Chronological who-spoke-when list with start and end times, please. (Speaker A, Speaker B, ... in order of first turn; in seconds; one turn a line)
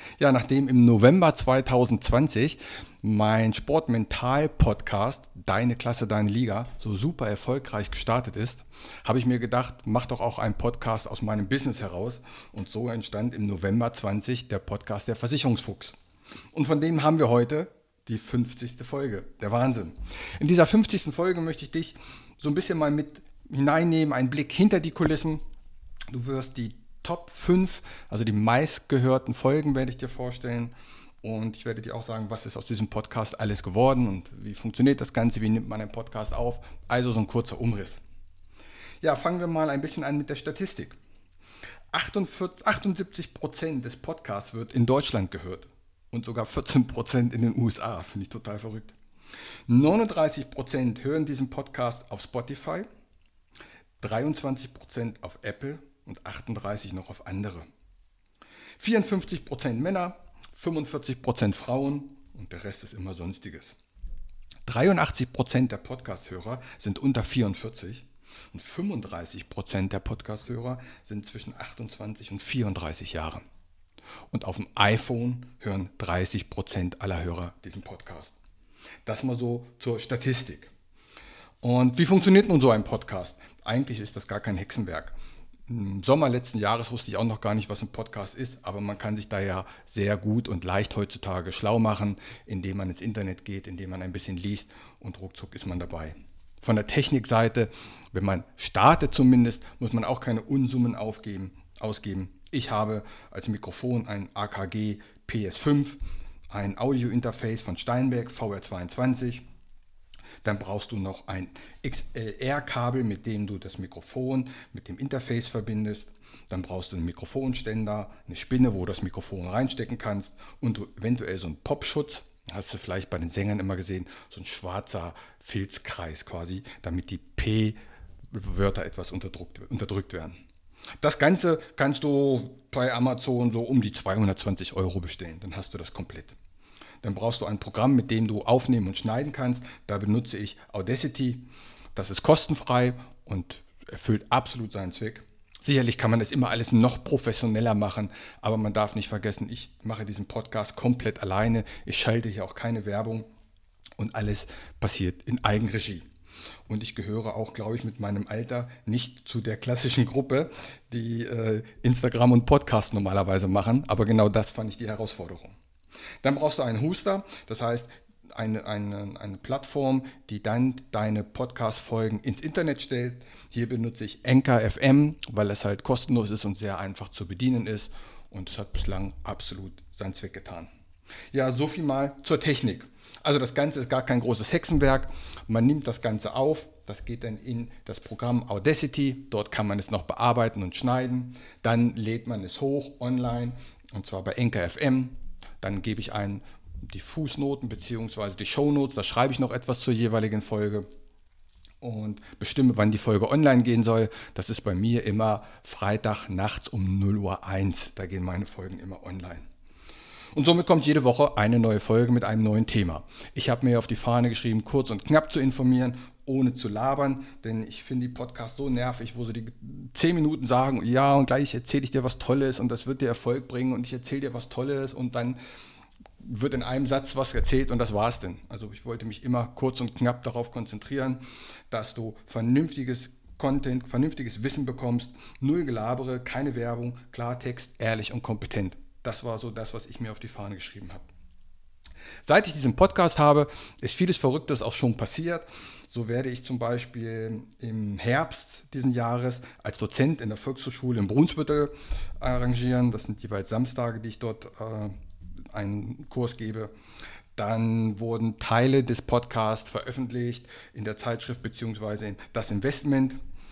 Speaker A: 0.2-16.0
Speaker A: 16.5-25.4
Speaker A: 26.1-38.0
Speaker A: 39.0-41.0
Speaker A: 41.9-48.9
Speaker A: 49.7-52.9
Speaker A: 54.0-57.6
Speaker A: 58.8-63.8
Speaker A: 64.7-73.4
Speaker A: 74.3-78.4
Speaker A: 79.1-80.7
Speaker A: 81.6-85.2
Speaker A: 85.7-106.0
Speaker A: 106.5-109.4
Speaker A: 110.4-127.8
Speaker A: 128.3-130.4
Speaker A: 131.0-136.4
Speaker A: 137.0-153.3
Speaker A: 154.0-156.1
Speaker A: 156.7-165.5
Speaker A: 166.2-180.7
Speaker A: 181.3-200.9
Speaker A: 201.8-209.4
Speaker A: 210.3-225.4
Speaker A: 226.2-241.1
Speaker A: 242.2-254.9
Speaker A: 255.5-256.7
Speaker A: 257.4-263.2